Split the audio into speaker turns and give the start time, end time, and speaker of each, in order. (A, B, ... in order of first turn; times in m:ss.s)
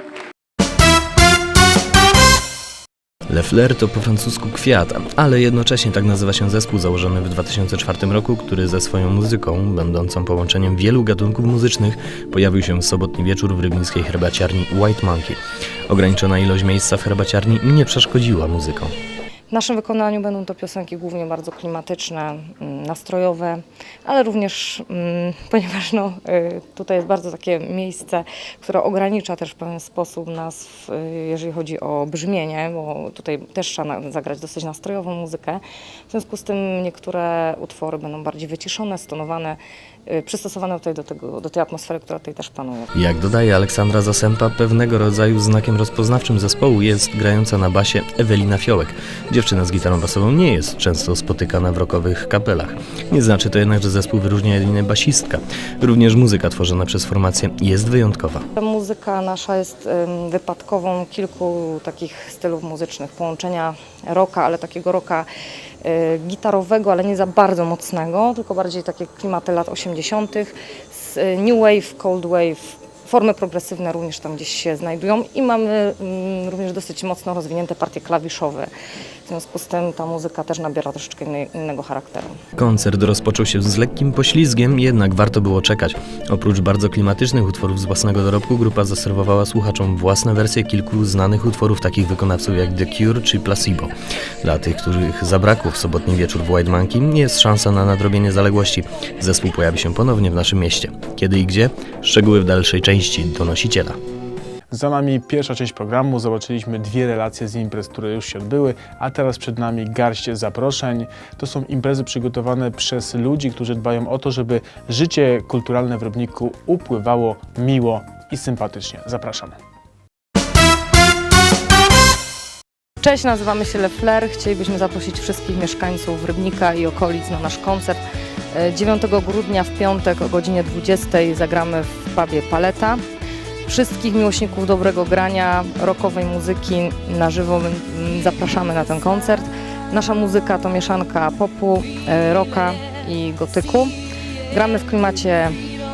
0:03.3-0:18.9 A
0:19.5-0:42.9 B
0:42.9-0:58.4 A
0:58.5-1:05.3 B
1:05.8-1:18.7 B
1:19.3-1:22.4 B
1:22.6-1:44.0 A
1:44.7-1:59.6 C
2:03.0-2:13.0 B
2:13.6-2:23.9 B
2:24.5-2:25.6 B